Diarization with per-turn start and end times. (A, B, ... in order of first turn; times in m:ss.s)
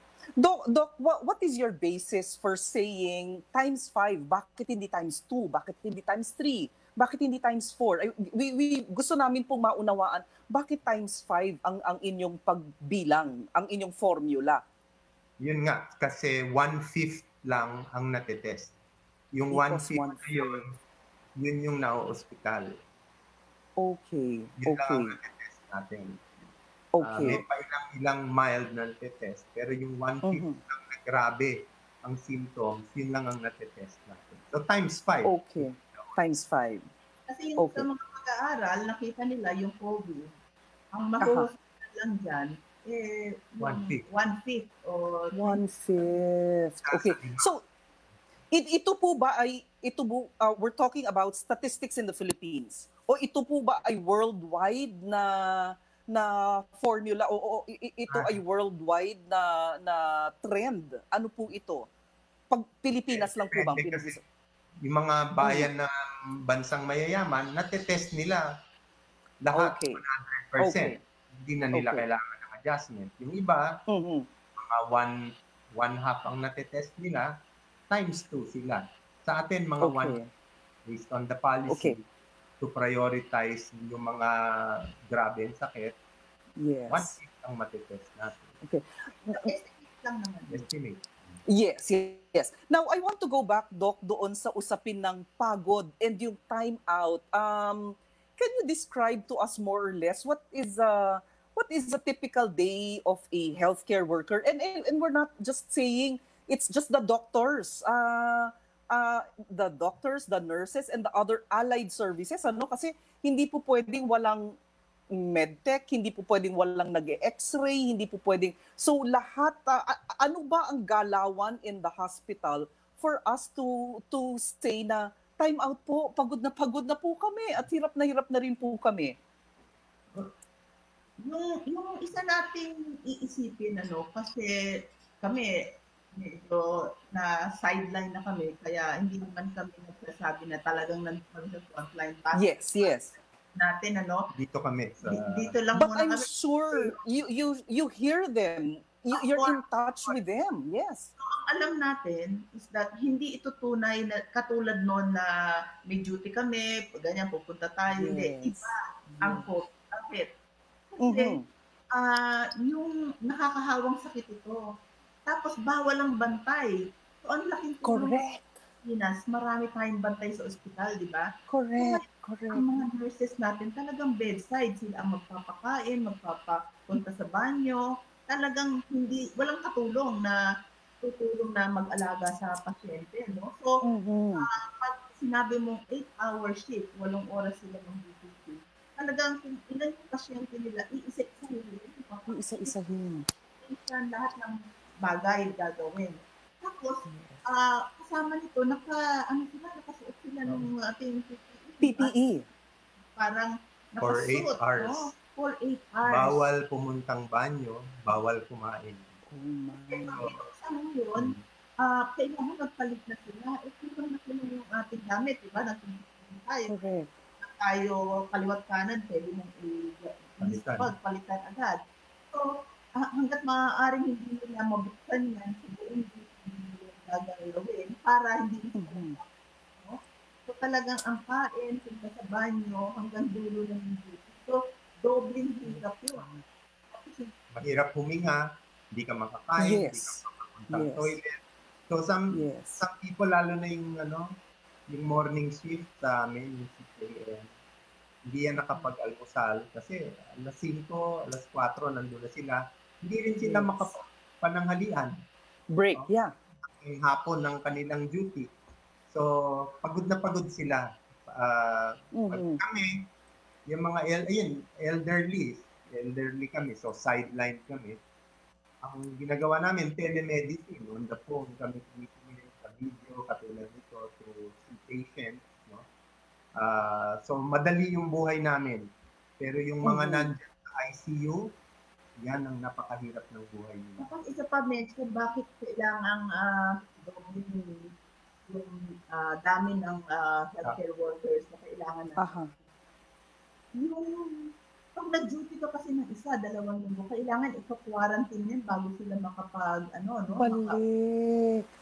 0:00.4-0:14.6 A
0:15.4-0:18.7 B
0:19.3-0:20.8 B
0:19.5-0:20.7 A
0:21.4-0:22.8 B
0:23.8-0:25.2 A
0:24.6-0:26.3 B
0:27.0-0:27.4 A
0:27.0-0:36.1 B
0:30.2-0:30.6 A
0:35.2-0:36.8 A
0:37.3-0:40.4 C
0:37.6-0:37.8 A
0:40.9-0:45.6 C
0:41.2-0:41.5 A
0:43.6-0:44.0 B
0:45.3-0:47.6 A
0:46.9-0:47.5 B
0:48.5-1:01.9 A
0:58.1-0:58.4 B
1:02.5-1:04.2 A
1:03.1-1:04.2 B
1:04.8-1:08.4 B
1:05.4-1:05.7 A
1:09.4-1:13.7 B
1:09.5-1:10.0 A
1:10.6-1:11.0 A
1:11.7-1:12.0 A
1:13.9-1:14.3 A
1:14.6-1:15.2 B
1:15.8-1:17.3 B
1:17.9-1:20.2 B
1:19.8-1:20.3 A
1:20.9-1:22.0 B
1:21.7-1:22.0 A
1:22.6-1:26.0 B
1:26.6-1:27.1 A
1:26.9-1:28.5 B
1:28.6-1:29.5 A
1:29.3-1:30.7 C
1:30.5-1:31.4 B
1:31.5-1:54.5 A
1:55.1-2:09.1 A
2:11.2-2:14.6 C
2:15.2-2:23.0 C
2:22.3-2:23.1 A
2:23.6-2:24.3 C
2:24.3-2:25.5 B
2:25.1-2:27.0 C
2:25.8-2:31.1 A
2:29.2-2:30.2 C
2:31.2-2:35.3 C
2:35.9-2:40.3 C
2:37.9-2:39.5 A
2:40.9-2:41.4 C
2:41.0-2:41.4 A
2:41.9-2:44.6 C
2:45.3-2:48.2 C
2:47.8-2:48.5 A
2:48.8-2:51.3 C
2:51.5-2:52.6 A
2:51.8-3:00.4 C
3:01.0-3:03.7 C
3:03.8-3:04.5 A
3:04.4-3:12.8 C
3:12.3-3:13.3 A
3:13.6-3:22.1 C
3:17.1-3:17.4 A
3:21.8-3:22.5 A
3:23.2-3:26.4 C
3:24.0-3:25.1 B
3:26.1-3:29.2 B
3:29.3-3:30.2 A
3:29.9-3:36.8 C
3:31.2-3:31.4 B
3:36.7-3:37.1 A
3:37.4-3:41.8 C
3:40.4-3:40.9 B
3:42.3-3:56.3 C
3:48.8-3:49.2 A
3:55.7-3:56.4 A
3:56.9-3:57.3 C
3:57.5-4:04.3 B
3:59.6-4:01.2 A
4:02.3-4:02.8 A
4:04.9-4:07.5 B
4:08.3-4:15.2 B
4:13.4-4:13.8 A
4:15.7-4:16.3 A
4:16.8-4:18.5 B
4:19.1-4:23.1 B
4:22.1-4:22.6 A
4:23.7-4:28.0 B
4:28.8-4:35.8 B
4:36.6-4:38.9 B
4:39.4-4:41.4 B
4:39.8-4:40.3 A
4:42.2-4:44.1 B
4:44.0-4:47.9 C
4:48.5-4:52.6 C
4:52.2-4:52.5 A
4:53.8-5:00.8 C
5:00.4-5:01.7 A